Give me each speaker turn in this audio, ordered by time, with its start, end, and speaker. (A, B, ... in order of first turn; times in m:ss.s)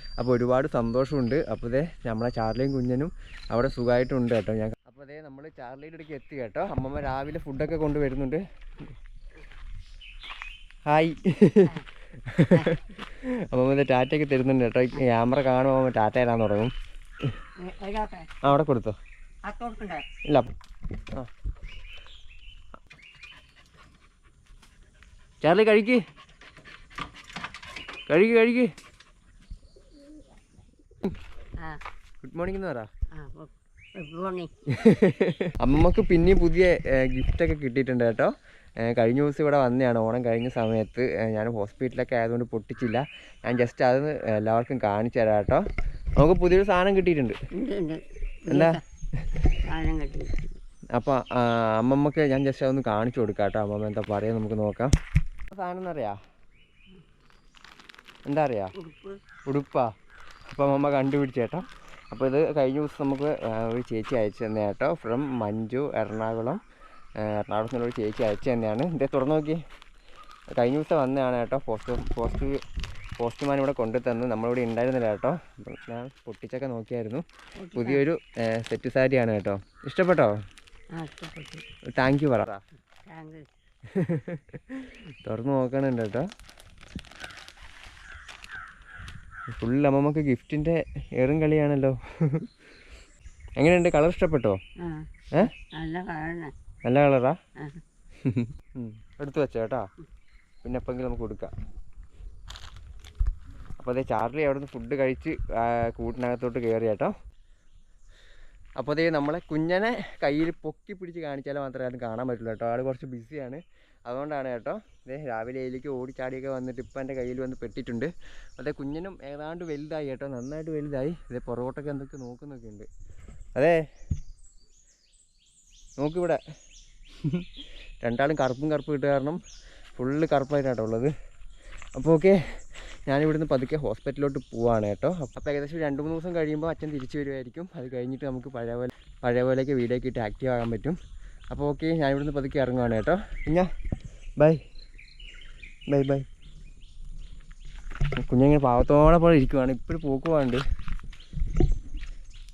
0:00.2-0:08.9 A
0:10.8-0:16.7 A
0:17.6-0:18.4 B
0:18.4-0:19.0 A
0:19.4-0:20.0 B
0:21.0-0:21.3 A
0:25.4-0:26.0 A
0:28.1-0:28.7 A
0:32.2-0:32.9 A
0:33.1-0:34.5 B
0:34.7-0:45.6 A
0:46.2-0:47.4 A
0:47.5-0:48.8 B
0:48.5-0:49.4 A
0:49.6-0:50.6 B
0:51.0-0:55.0 A
0:55.5-0:56.2 A
0:58.3-0:58.7 A
0:58.8-0:59.2 B
0:59.5-0:59.9 A
1:00.5-1:06.6 A
1:07.2-1:09.6 A
1:10.5-1:12.6 A
1:13.2-1:17.2 A
1:17.6-1:18.0 B
1:17.8-1:20.3 A
1:20.9-1:21.7 B
1:21.9-1:22.6 A
1:23.1-1:23.5 B
1:23.9-1:26.3 A
1:29.5-1:32.5 A
1:33.6-1:34.6 A
1:34.8-1:36.5 B
1:36.8-1:37.4 A
1:37.6-1:37.8 B
1:38.2-1:39.9 A
1:40.6-1:41.5 A
1:43.8-1:47.1 A
1:48.8-2:02.9 A
2:03.6-2:03.8 A
2:06.0-2:06.4 A
2:08.0-2:09.4 A
2:10.0-2:11.1 A
2:11.9-2:21.0 A
2:21.5-2:23.7 A
2:24.4-2:24.6 A
2:25.9-2:26.2 A
2:28.2-2:30.6 A